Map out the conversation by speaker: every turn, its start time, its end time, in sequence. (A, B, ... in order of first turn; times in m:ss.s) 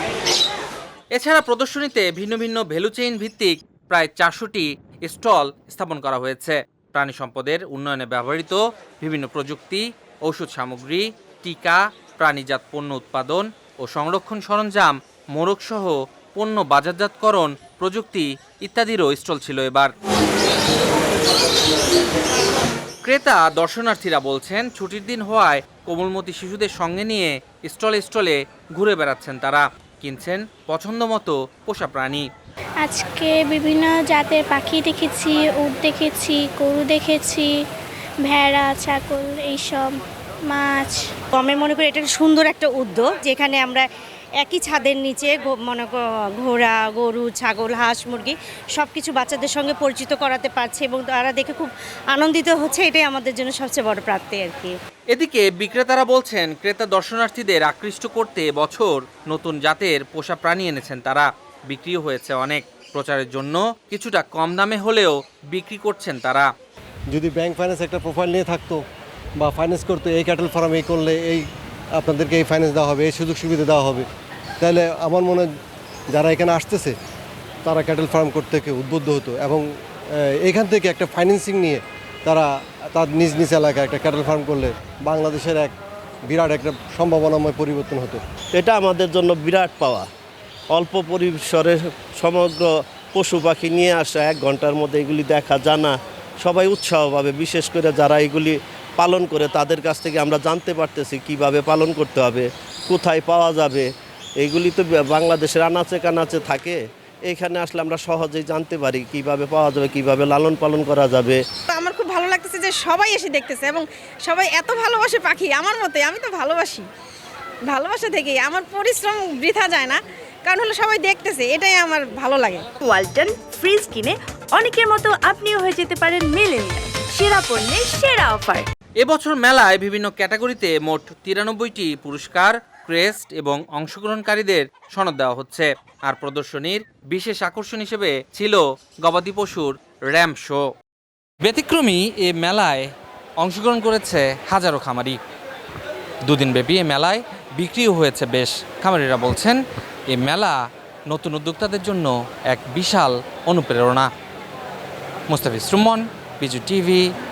0:01.1-0:19.9 A
0:23.0-0:32.2 A
0:32.8-0:37.5 B
0:38.2-0:39.9 B
0:40.5-0:41.0 B
0:41.4-0:43.8 C
0:44.4-0:54.7 C
0:55.1-1:06.5 A
1:07.1-1:08.8 D
1:09.4-1:11.4 D
1:12.0-1:14.1 D
1:14.6-1:15.5 D
1:16.1-1:17.0 D
1:17.6-1:25.7 D
1:26.3-1:28.2 D
1:28.5-1:30.0 E
1:30.7-1:42.4 E
1:43.0-1:43.8 E
1:44.4-1:46.6 E
1:47.3-1:49.2 E
1:49.9-1:50.4 E
1:51.6-1:56.8 F
1:57.7-2:02.6 F
2:02.8-2:08.6 G
2:09.0-2:20.6 A
2:21.4-2:22.9 A
2:23.4-2:25.2 A
2:26.2-2:29.6 A
2:30.1-2:34.1 A
2:35.3-2:37.1 A